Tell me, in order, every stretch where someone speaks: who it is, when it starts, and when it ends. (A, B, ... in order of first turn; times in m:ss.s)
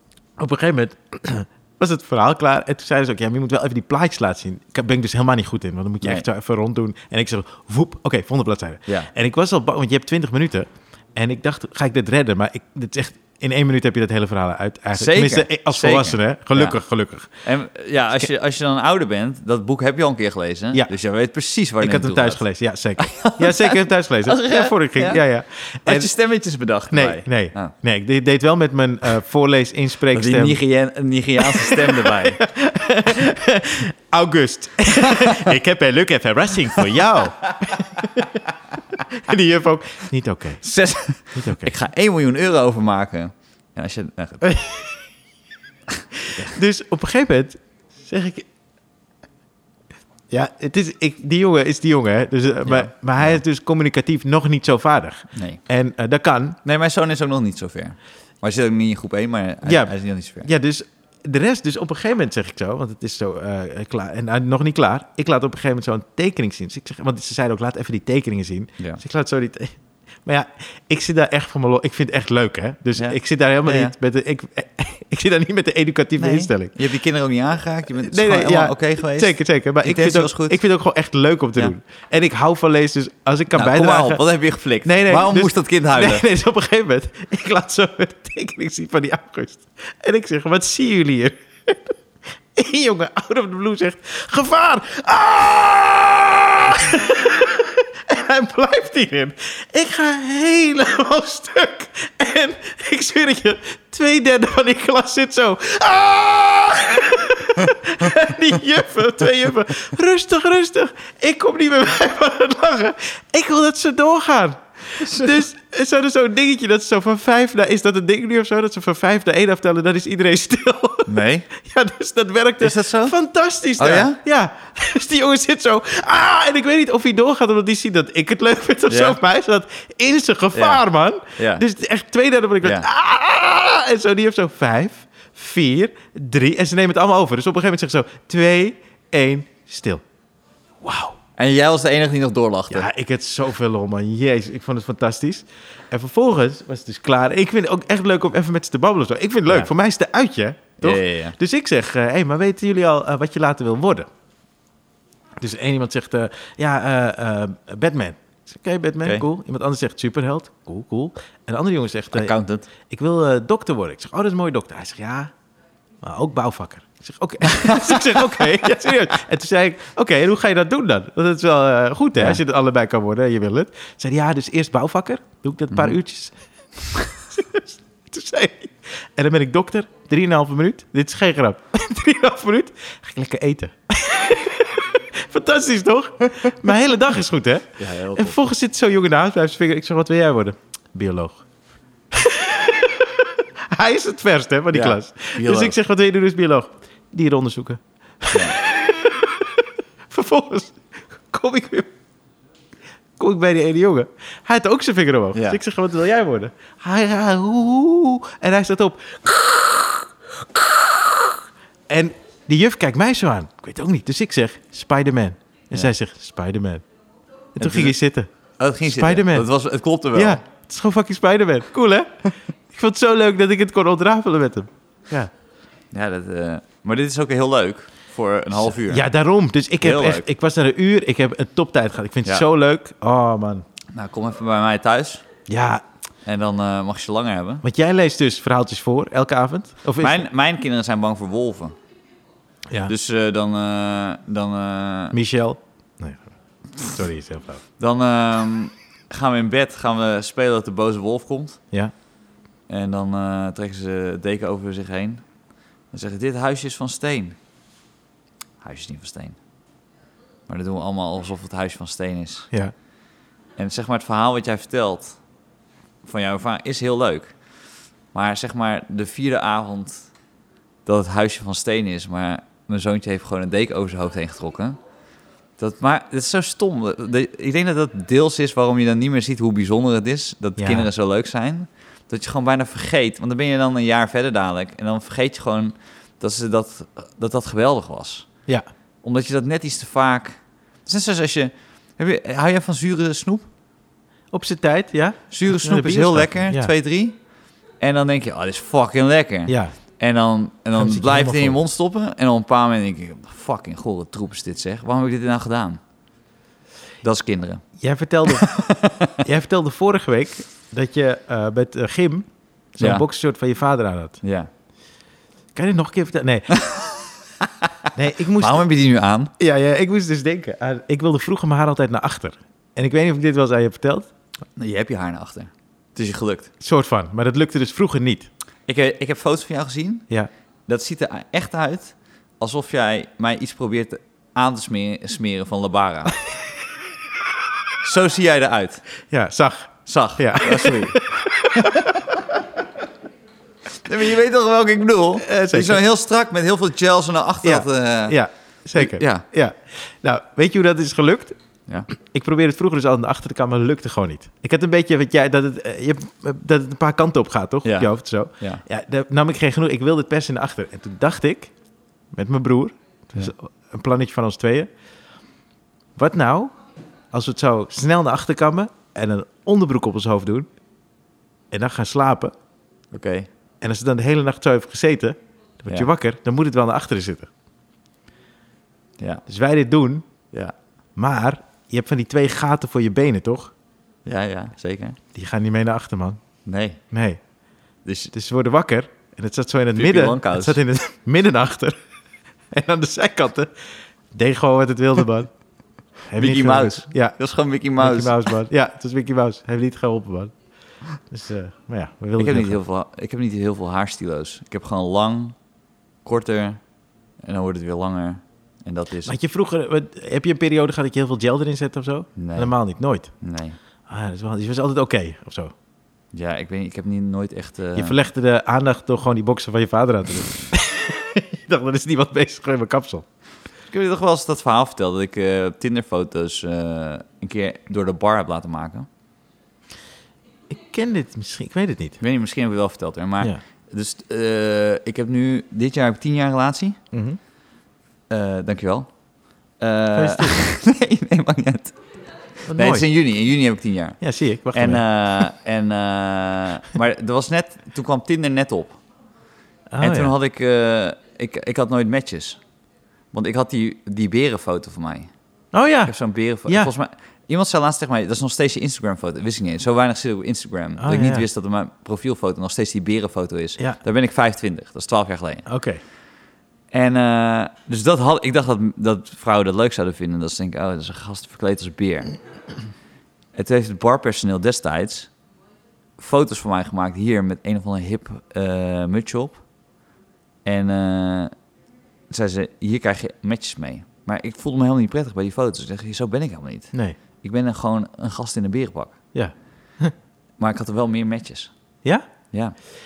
0:00.4-0:17.4 A
0:14.9-0:16.8 B
0:17.4-0:22.4 B
0:21.8-0:26.1 A
0:23.0-0:25.2 B
0:25.9-0:27.7 B
0:26.9-0:30.6 A
0:30.1-0:32.4 B
0:31.4-0:40.6 A
0:35.0-0:35.6 B
0:36.7-0:37.2 B
0:40.6-0:44.5 B
0:41.3-0:41.7 A
0:44.4-0:44.9 A
0:46.2-0:48.4 A
0:50.3-0:56.6 A
0:52.6-0:53.4 B
0:55.3-0:55.6 B
0:56.6-1:00.5 B
0:59.6-1:16.8 A
1:12.9-1:13.9 B
1:16.2-1:20.6 B
1:17.9-1:24.2 A
1:23.5-1:26.2 B
1:24.8-1:31.9 A
1:32.5-2:20.0 A
1:55.0-1:55.4 B
2:01.1-2:01.5 B
2:02.6-2:03.1 B
2:03.8-2:04.2 B
2:08.9-2:09.2 B
2:10.5-2:10.8 B
2:11.4-2:11.6 B
2:20.8-2:21.2 A
2:21.4-2:22.9 B
2:22.7-2:34.1 A
2:30.8-2:31.4 B
2:35.4-2:42.3 A
2:42.1-2:42.7 B
2:42.9-2:45.3 A
2:46.0-2:56.3 A
2:47.4-2:48.9 B
2:57.0-3:11.4 A
3:07.8-3:08.4 B
3:12.1-3:21.9 A
3:14.7-3:15.8 B
3:18.3-3:18.6 B
3:23.2-3:36.8 A
3:25.3-3:25.6 B
3:37.6-3:38.3 A
3:37.6-3:37.9 B
3:38.6-3:40.4 B
3:38.8-3:39.5 A
3:40.1-3:45.3 A
3:45.9-3:49.0 B
3:48.6-3:53.6 A
3:49.8-3:50.2 B
3:53.9-3:55.2 B
3:55.5-3:55.8 A
3:56.2-3:57.6 B
3:57.6-4:00.3 A
4:00.0-4:01.8 B
4:02.9-4:05.2 B
4:05.1-4:07.6 A
4:07.8-4:11.6 B
4:12.7-4:15.2 B
4:15.9-4:17.4 B
4:18.6-4:19.4 B
4:20.5-4:22.5 B
4:23.6-4:25.2 B
4:26.0-4:27.3 B
4:28.1-4:30.1 B
4:30.8-4:34.8 B
4:35.6-4:48.3 B
4:40.6-4:40.9 A
4:49.0-4:53.5 B
4:54.3-4:56.7 A
4:55.3-4:57.2 B
4:57.8-5:05.8 B
4:59.5-4:59.7 A
5:00.7-5:01.6 A
5:07.0-5:07.6 B
5:07.8-5:08.6 A
5:08.3-5:09.2 B
5:09.2-5:14.2 A
5:12.8-5:13.0 B
5:14.2-5:14.5 B
5:15.5-5:16.6 A
5:17.4-5:17.7 B
5:17.9-5:18.7 A
5:18.4-5:19.3 B
5:19.4-5:24.1 A
5:24.6-5:26.5 B
5:26.6-5:28.3 A
5:28.7-5:30.0 B
5:30.7-5:36.1 B
5:37.8-5:38.8 B
5:39.1-5:42.2 A
5:39.9-5:41.0 B
5:43.8-5:48.2 B
5:45.2-5:45.8 A
5:47.4-5:51.4 A
5:48.8-5:49.2 B
5:51.9-6:01.5 A
6:02.1-6:04.7 A
6:06.0-6:06.5 A
6:07.1-6:10.5 A
6:11.5-6:12.3 A
6:12.9-6:13.3 B
6:13.6-6:17.3 A
6:19.3-6:20.0 A
6:21.0-6:23.5 A
6:24.0-6:25.0 B
6:25.1-6:26.2 A
6:26.4-6:26.8 B
6:26.9-6:27.2 A
6:27.8-6:28.1 B
6:28.1-6:31.8 A
6:29.7-6:30.6 B
6:32.5-6:33.5 A
6:34.1-6:35.3 A
6:36.1-6:37.2 A
6:36.2-6:38.3 B
6:37.8-6:40.3 A
6:41.1-6:42.6 A
6:42.2-6:45.4 B
6:46.0-6:46.6 B
6:47.2-6:49.1 B
6:49.0-6:53.1 A
6:52.2-6:52.5 B
6:53.2-6:53.6 B
6:53.9-6:55.5 A
6:56.1-6:58.0 B
6:57.7-7:03.0 A
7:03.7-7:08.9 B
7:10.5-7:12.0 A
7:12.0-7:16.8 B
7:16.9-7:17.2 A
7:18.1-7:18.9 B
7:19.6-7:21.8 B
7:19.9-7:20.5 A
7:22.5-7:22.9 A
7:22.5-7:24.0 B
7:24.0-7:24.8 A
7:24.5-7:28.8 B
7:29.7-7:30.1 A
7:29.8-7:32.4 B
7:33.1-7:35.1 B
7:35.5-7:35.9 A
7:35.9-7:45.4 B
7:36.5-7:36.7 A
7:40.8-7:41.2 A
7:45.5-7:45.8 A
7:46.7-7:52.2 B
7:53.3-7:55.1 B
7:56.0-7:59.4 B
8:00.4-8:01.3 B
8:02.1-8:06.7 B
8:07.2-8:09.0 B
8:09.1-8:09.9 A
8:10.4-8:11.5 B